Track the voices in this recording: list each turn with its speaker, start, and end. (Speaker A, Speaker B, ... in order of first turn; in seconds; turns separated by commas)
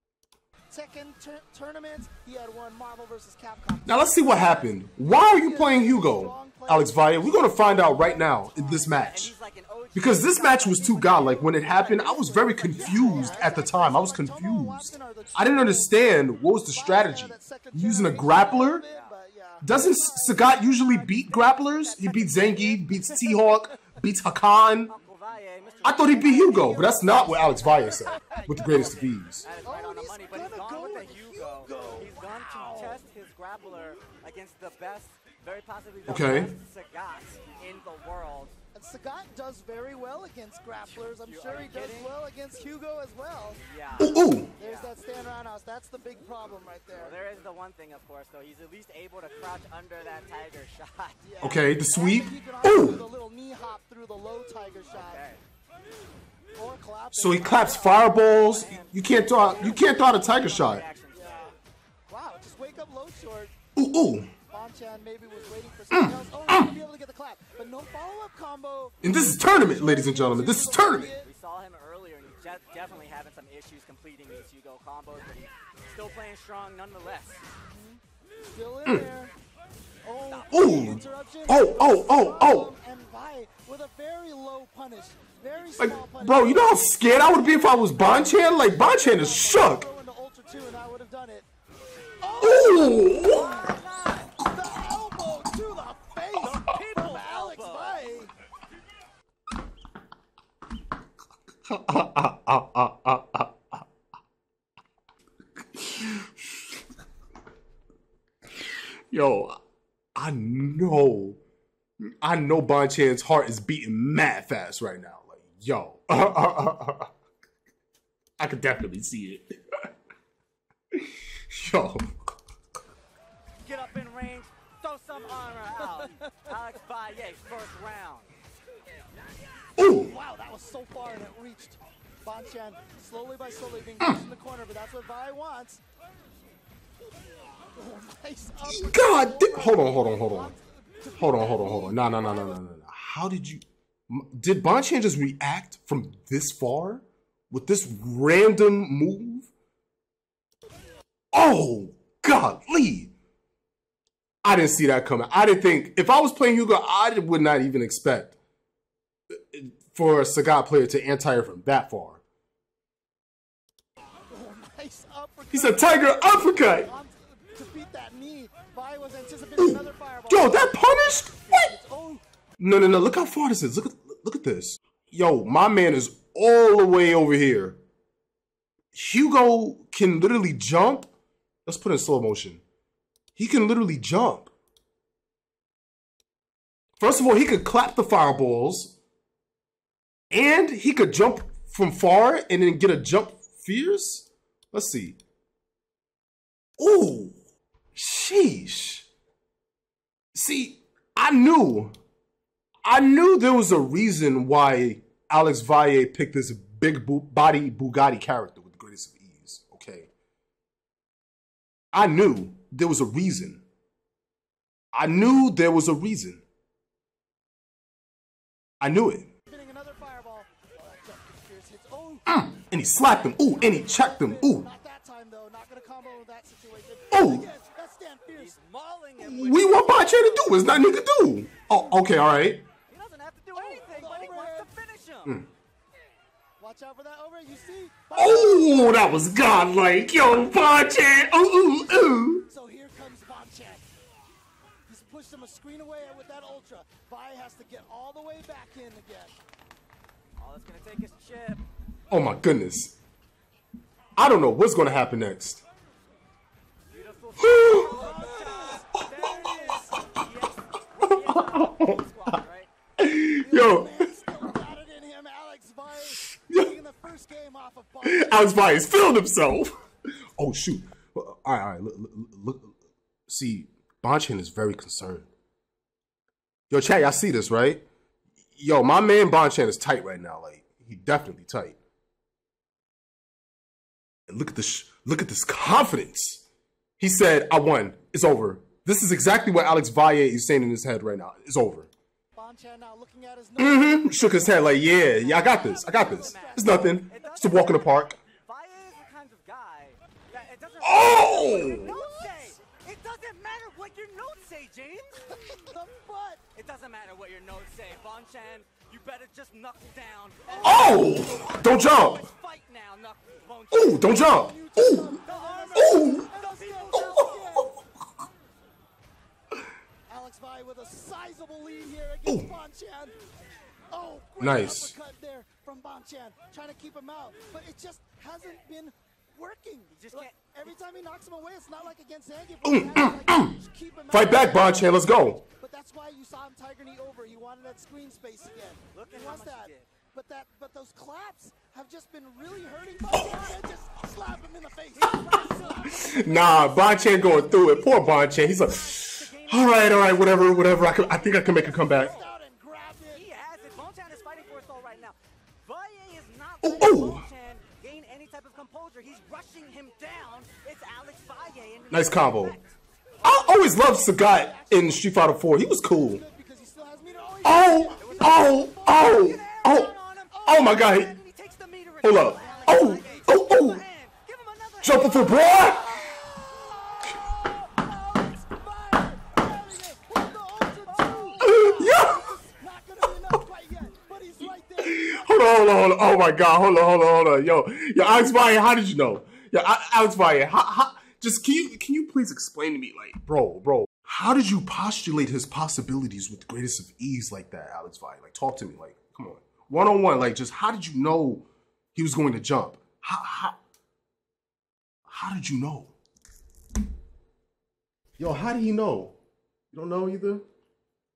Speaker A: 0.7-9.0, Speaker B: 3.9-9.3, Speaker C: 8.9-13.5, Speaker B: 9.9-18.8, Speaker A: 11.8-23.9, Speaker C: 18.9-19.1, Speaker B: 19.6-24.9, Speaker C: 24.9-38.5, Speaker B: 25.8-29.5, Speaker A: 29.6-33.0, Speaker B: 36.1-36.5, Speaker A: 38.7-43.6, Speaker C: 40.9-42.1, Speaker C: 43.6-44.9, Speaker B: 44.0-44.5, Speaker A: 44.6-47.2, Speaker C: 46.9-51.3, Speaker A: 51.2-55.2, Speaker B: 51.4-53.0, Speaker C: 54.9-55.4, Speaker A: 56.6-58.1, Speaker B: 57.1-60.8, Speaker C: 58.2-61.5, Speaker A: 61.1-61.5, Speaker A: 62.1-63.5, Speaker B: 63.8-64.3, Speaker A: 64.5-71.3, Speaker B: 65.9-66.7, Speaker B: 69.0-71.1, Speaker C: 71.2-77.5, Speaker A: 77.7-79.3, Speaker A: 80.0-88.0, Speaker C: 80.3-80.7, Speaker B: 80.5-82.7, Speaker B: 85.8-89.9, Speaker A: 88.7-91.5, Speaker A: 92.2-93.7, Speaker B: 92.4-93.6, Speaker C: 93.2-94.4, Speaker A: 94.4-98.3, Speaker C: 96.4-98.3, Speaker B: 101.7-103.6, Speaker B: 105.8-106.3, Speaker B: 109.1-109.6, Speaker B: 110.2-111.4, Speaker B: 112.2-117.1, Speaker B: 118.4-119.6, Speaker B: 120.9-122.1, Speaker C: 123.6-128.3, Speaker B: 129.8-130.1, Speaker A: 129.8-135.8, Speaker A: 137.8-142.6, Speaker B: 138.6-140.5, Speaker B: 141.2-149.5, Speaker B: 151.3-153.1, Speaker B: 154.4-158.4, Speaker B: 159.3-162.2, Speaker A: 164.3-172.2, Speaker B: 165.5-166.9, Speaker B: 169.6-171.7, Speaker B: 172.6-177.8, Speaker B: 178.9-181.1, Speaker B: 181.7-182.6, Speaker B: 183.3-184.5, Speaker B: 187.0-189.0, Speaker B: 190.3-195.2, Speaker B: 196.8-197.3, Speaker B: 197.9-199.1, Speaker B: 200.3-201.9, Speaker B: 202.8-210.1, Speaker B: 211.9-213.6, Speaker B: 214.9-216.4, Speaker B: 218.8-219.3, Speaker A: 219.5-222.3, Speaker B: 222.3-224.7, Speaker A: 223.2-228.6, Speaker B: 227.1-227.5, Speaker C: 228.3-230.8, Speaker B: 229.2-232.6, Speaker C: 232.9-235.4, Speaker A: 233.6-234.7, Speaker A: 236.6-239.3, Speaker B: 238.1-242.4, Speaker A: 242.5-243.9, Speaker A: 244.9-249.4, Speaker C: 250.4-251.7, Speaker B: 252.1-253.0, Speaker B: 254.2-255.6, Speaker C: 256.9-262.7, Speaker B: 257.4-258.0, Speaker A: 257.8-258.9, Speaker B: 261.0-262.0, Speaker B: 263.0-264.1, Speaker A: 263.4-268.8, Speaker B: 266.4-266.7, Speaker B: 268.0-269.8, Speaker B: 270.4-272.7, Speaker B: 273.3-275.3, Speaker B: 276.7-277.8, Speaker B: 278.6-281.8, Speaker B: 284.3-286.4, Speaker B: 287.0-291.9, Speaker A: 292.4-297.0, Speaker B: 293.6-298.2, Speaker C: 295.7-305.2, Speaker B: 300.8-301.9, Speaker A: 301.4-302.4, Speaker A: 305.3-306.4, Speaker C: 306.5-314.2, Speaker A: 310.5-311.5, Speaker B: 310.6-312.3, Speaker B: 313.7-315.2, Speaker A: 313.9-317.8, Speaker C: 315.2-317.5, Speaker B: 315.7-316.3, Speaker B: 316.9-317.5, Speaker A: 320.1-323.1, Speaker B: 322.3-322.5, Speaker A: 323.9-334.9, Speaker B: 324.4-324.9, Speaker C: 329.9-330.5, Speaker B: 332.6-333.6, Speaker B: 334.1-335.4, Speaker A: 335.5-347.1, Speaker C: 338.9-339.9, Speaker B: 343.1-343.4, Speaker C: 345.0-346.8, Speaker B: 345.7-352.1, Speaker C: 348.2-352.3, Speaker A: 351.0-353.3, Speaker C: 353.1-362.6, Speaker B: 356.6-357.3, Speaker B: 361.9-362.6, Speaker A: 363.2-365.0, Speaker B: 363.2-366.2, Speaker A: 366.0-368.6, Speaker B: 367.4-369.9, Speaker C: 368.0-376.8, Speaker A: 370.3-370.6, Speaker B: 370.4-371.1, Speaker B: 372.0-373.8, Speaker A: 372.4-372.7, Speaker B: 374.8-376.0, Speaker A: 375.6-385.4, Speaker B: 381.4-382.4, Speaker B: 384.8-403.6, Speaker B: 405.1-405.9, Speaker B: 408.2-409.2, Speaker B: 409.7-410.4